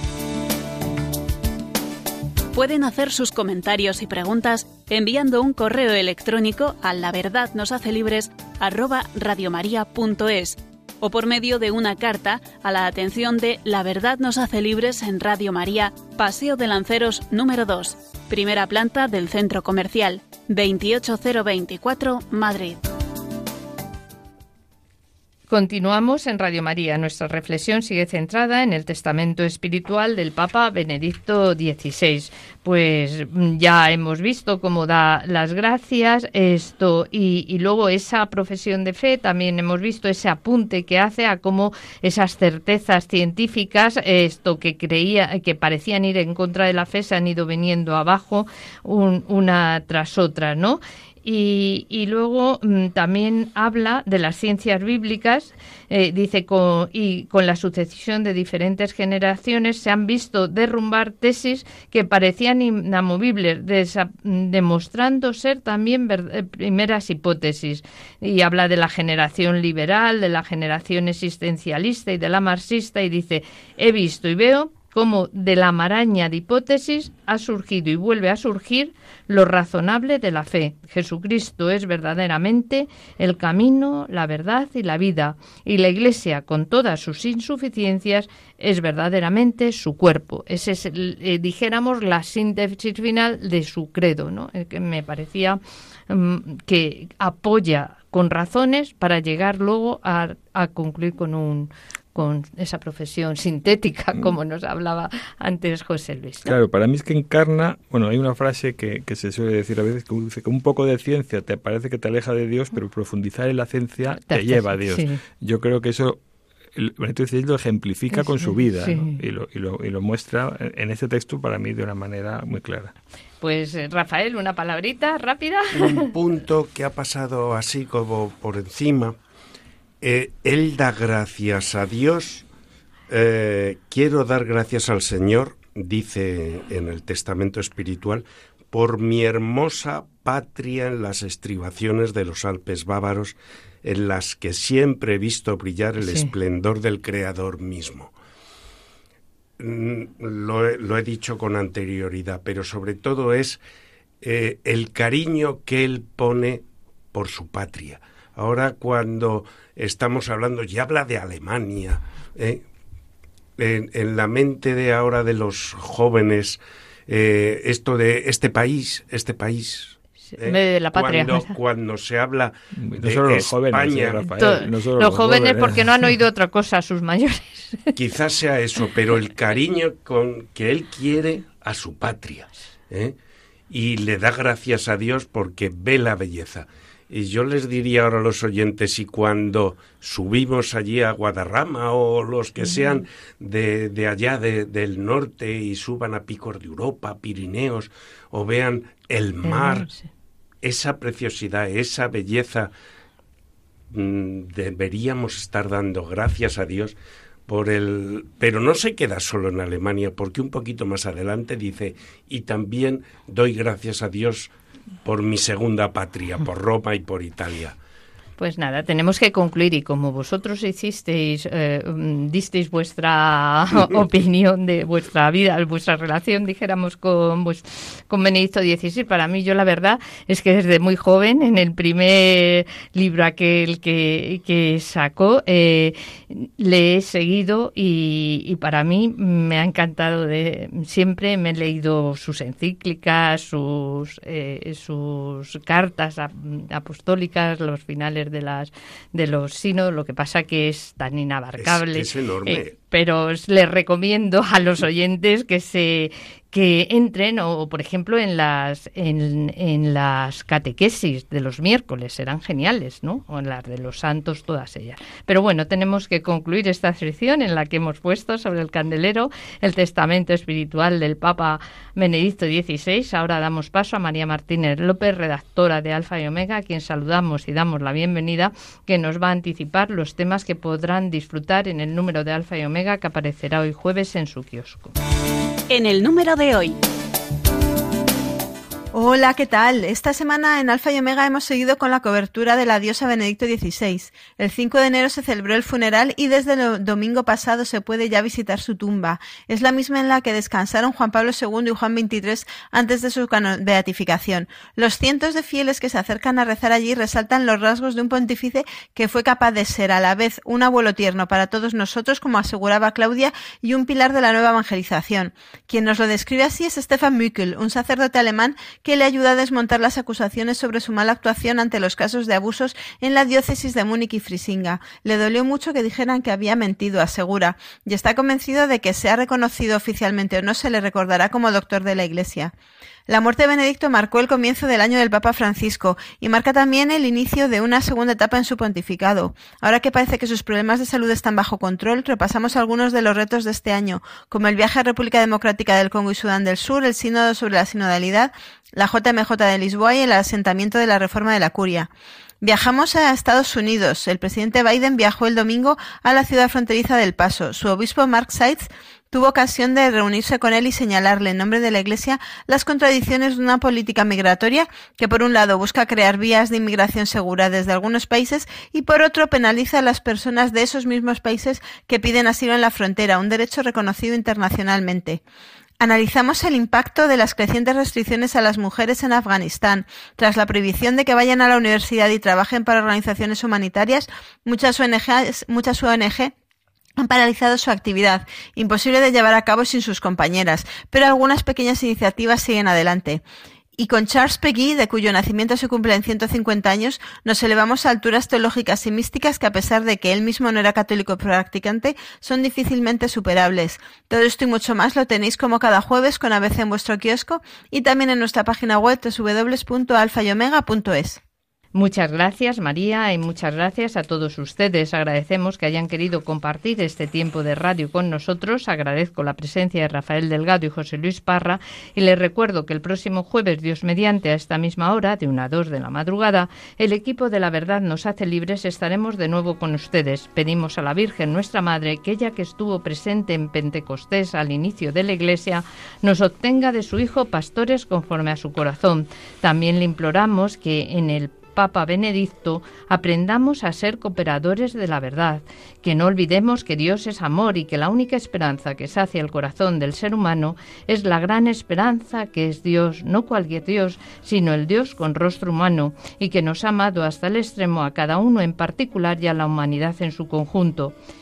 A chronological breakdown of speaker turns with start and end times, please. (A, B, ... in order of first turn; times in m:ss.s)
0:02.5-0:22.8 A
0:25.5-1:46.5 B
1:46.4-1:56.2 C
1:54.2-1:55.2 B
1:56.8-2:02.9 C
1:58.1-1:59.2 B
2:03.4-2:06.1 B
2:05.7-2:09.2 D
2:10.0-2:12.5 D
2:13.1-2:28.1 D
2:26.0-2:26.3 B
2:29.6-2:33.6 D
2:34.2-2:42.6 D
2:43.6-2:54.2 D
2:50.3-2:51.5 B
2:52.8-2:56.1 C
2:54.2-2:58.0 B
2:58.0-3:03.2 D
3:03.7-3:19.9 D
3:19.4-3:20.1 B
3:20.6-3:22.7 D
3:23.9-3:27.0 D
3:27.5-3:34.5 D
3:35.0-3:37.8 D
3:38.4-4:45.0 B
4:11.6-4:12.7 D
4:45.7-4:46.8 A
4:48.9-5:32.5 E
5:33.1-5:51.9 E
5:52.4-6:15.2 E
6:15.8-6:26.3 E
6:27.0-6:33.2 E
6:33.8-6:51.2 E
6:51.8-7:41.0 B